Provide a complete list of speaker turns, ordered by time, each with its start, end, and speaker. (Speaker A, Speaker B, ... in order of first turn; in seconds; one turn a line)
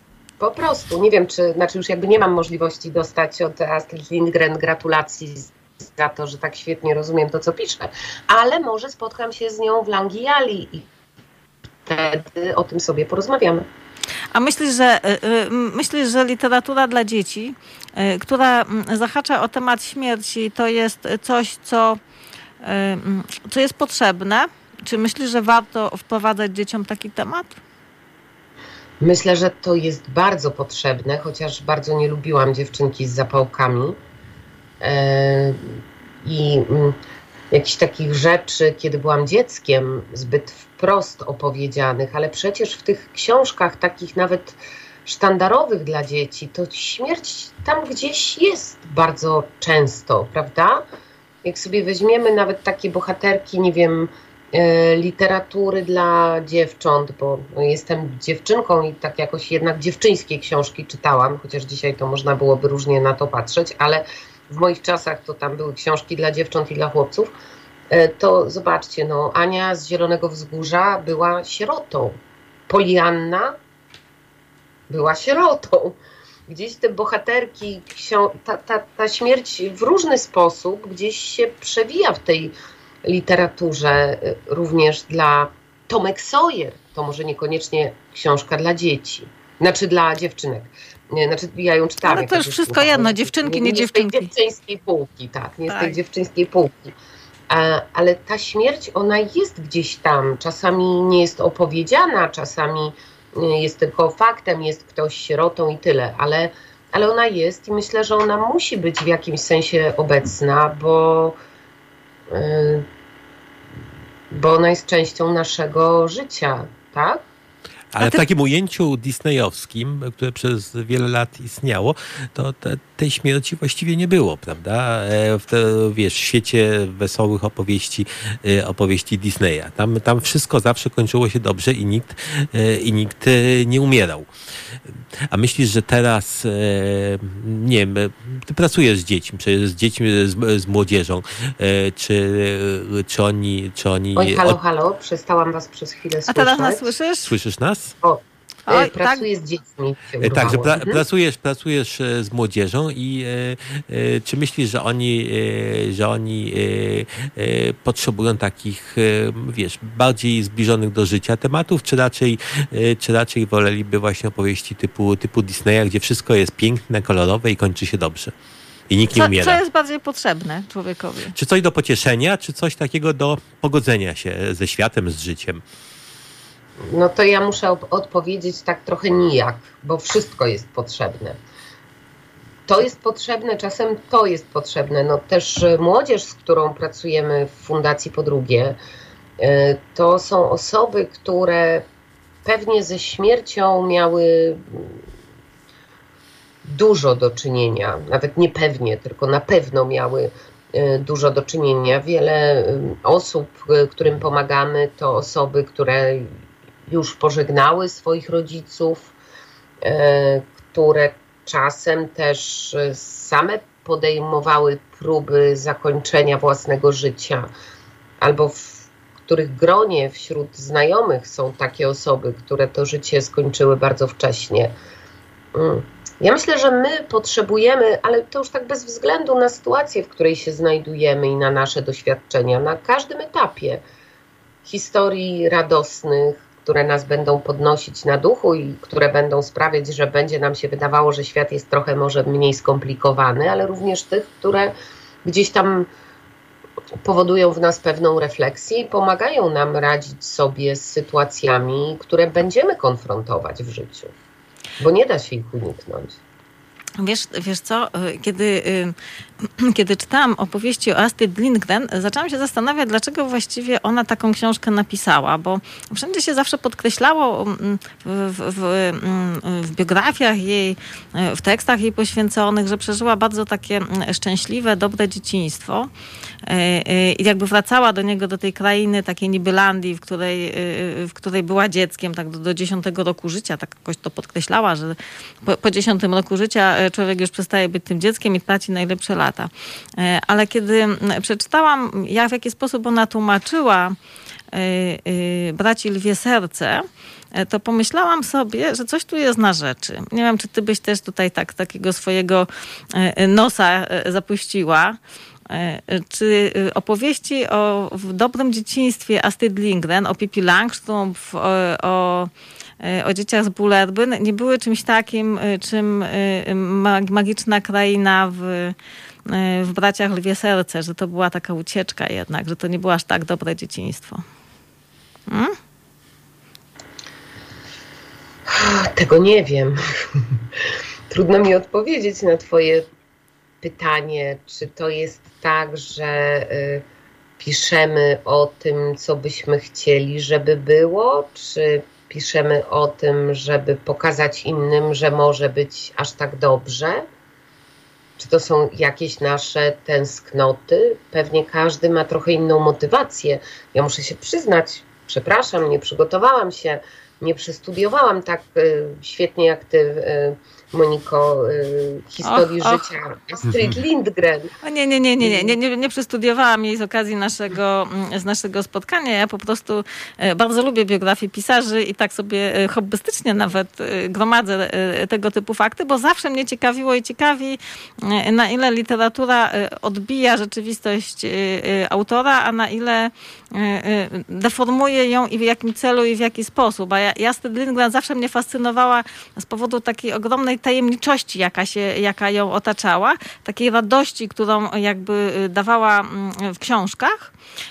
Speaker A: 0.4-10.8
Speaker A: 11.8-13.7
Speaker B: 14.3-22.0
Speaker B: 22.6-27.6
Speaker A: 29.0-34.0
Speaker A: 34.8-37.0
Speaker A: 37.5-50.9
Speaker A: 51.4-67.3
Speaker A: 67.9-72.2
Speaker A: 72.7-73.5
Speaker A: 74.9-76.0
Speaker A: 76.5-96.9
Speaker B: 92.0-94.3
Speaker B: 95.7-96.0
Speaker A: 97.5-111.4
Speaker A: 112.3-112.8
Speaker A: 114.3-117.2
Speaker C: 117.9-134.3
Speaker C: 135.3-144.6
Speaker A: 144.2-146.9
Speaker B: 146.3-147.3
Speaker C: 147.2-147.9
Speaker A: 148.0-151.0
Speaker B: 148.7-149.2
Speaker C: 150.2-168.3
Speaker C: 168.9-169.6
Speaker B: 169.1-171.3
Speaker C: 171.3-175.6
Speaker A: 176.8-181.4
Speaker A: 182.7-188.8
Speaker A: 189.4-191.8
Speaker A: 192.4-195.0
Speaker A: 196.6-206.3
Speaker A: 206.9-209.1
Speaker A: 209.8-217.5
Speaker A: 218.2-224.7
Speaker A: 225.5-233.8
Speaker A: 234.6-245.9
Speaker A: 247.0-254.1
Speaker A: 254.8-256.2
Speaker B: 257.0-275.9
Speaker B: 276.4-294.0
Speaker B: 294.5-305.0
Speaker B: 305.5-318.7
Speaker B: 319.2-324.2
Speaker B: 325.3-325.6
Speaker A: 328.5-330.2
Speaker A: 331.1-332.8
Speaker A: 333.6-336.8
Speaker A: 337.4-347.1
Speaker A: 348.2-364.5
Speaker B: 362.2-362.9
Speaker B: 364.6-397.3
Speaker A: 365.2-365.5